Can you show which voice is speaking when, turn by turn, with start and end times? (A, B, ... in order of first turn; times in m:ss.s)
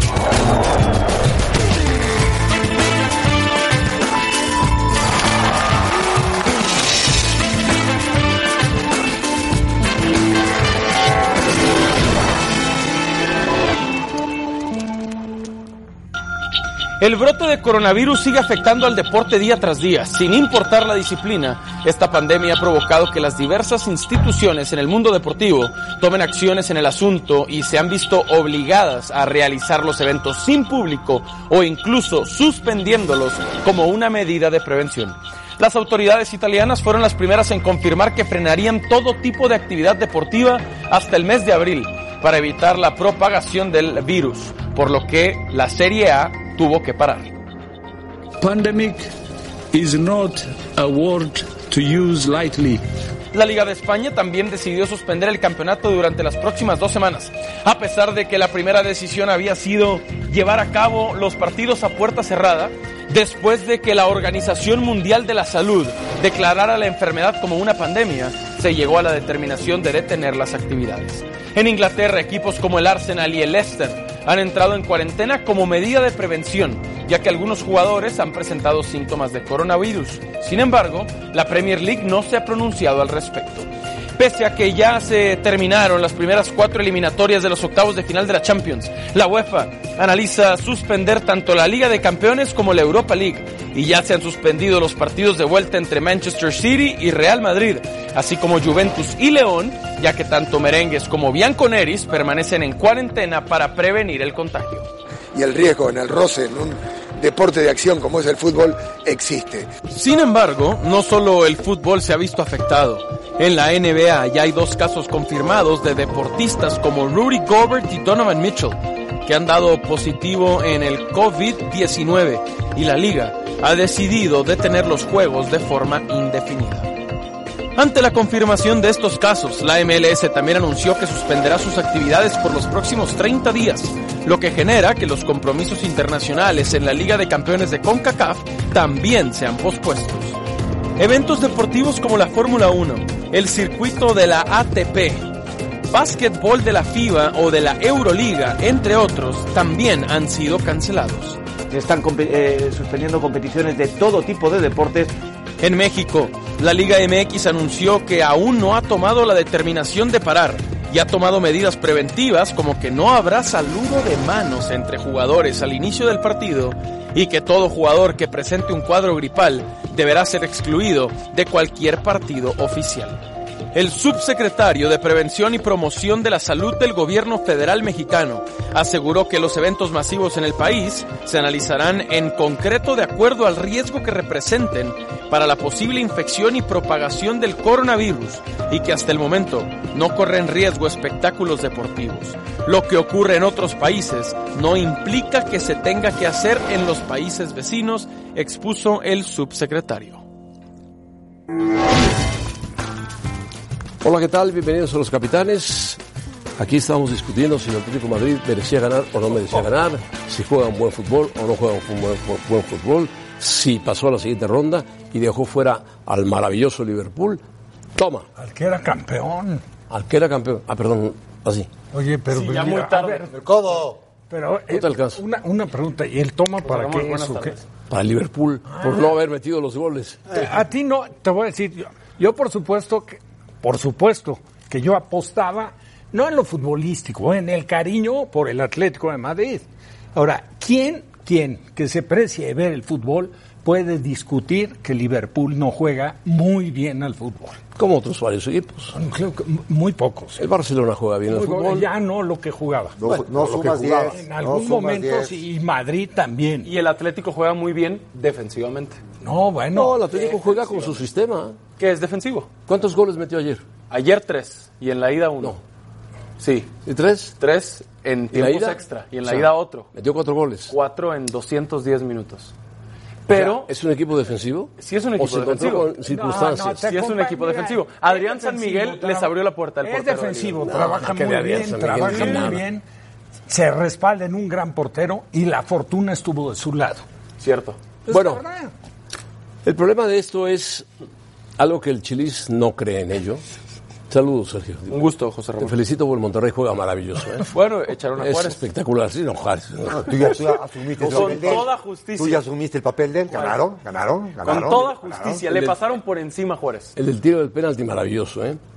0:17.0-0:47.3 A
0:48.4-0:49.1 B
0:49.7-0:52.8 B
0:53.3-1:44.9 A
1:45.3-1:49.7 C
1:49.9-2:06.9 A
2:07.8-2:20.4 A
2:21.0-2:25.3 A
2:25.9-2:31.4 A
2:31.7-2:35.1 D
2:35.6-2:53.2 A
2:53.7-3:20.2 A
3:24.0-3:26.0 E
3:26.6-3:37.4 E
3:38.0-3:38.3 E
3:38.4-3:39.6 F
3:39.9-3:41.7 E
3:41.9-3:43.3 F
3:42.3-3:43.4 A
3:43.3-3:44.0 G
3:44.3-3:47.6 F
3:44.7-3:45.2 E
3:46.6-3:47.6 A
3:47.9-3:50.2 E
3:48.7-3:49.1 F
3:50.3-4:07.6 F
4:07.8-4:09.0 E
4:08.9-4:10.4 F
4:10.4-4:11.9 E
4:11.3-4:13.0 F
4:13.0-4:15.4 G
4:13.0-4:14.2 E
4:13.9-4:16.7 F
4:16.6-4:19.0 A
4:19.2-4:20.0 F
4:19.7-4:21.6 E
4:20.1-4:21.0 A
4:21.8-4:22.5 A
4:22.7-4:23.6 E
4:23.9-4:25.6 A
4:26.4-4:26.7 A
4:26.8-4:27.4 E
4:27.4-4:29.9 A
4:28.3-4:30.8 E
4:30.7-4:32.5 A
4:33.3-4:33.7 A
4:33.3-4:36.8 E
4:34.8-4:35.9 A
4:36.0-4:42.8 F
4:36.8-4:40.8 A
4:40.6-4:42.6 E
4:43.5-4:47.0 F
4:47.4-4:47.8 A
4:48.1-4:48.7 F
4:48.1-4:48.4 E
4:49.6-4:50.9 E
4:51.6-4:53.4 E
4:54.1-4:55.0 E
4:54.9-4:55.7 A
4:55.6-4:57.5 E
4:57.5-4:58.6 A
4:58.2-5:00.4 E
4:59.9-5:05.4 G
5:01.0-5:01.5 E
5:01.0-5:02.4 A
5:03.3-5:03.6 A
5:04.4-5:06.9 A
5:05.5-5:05.8 E
5:07.0-5:08.6 E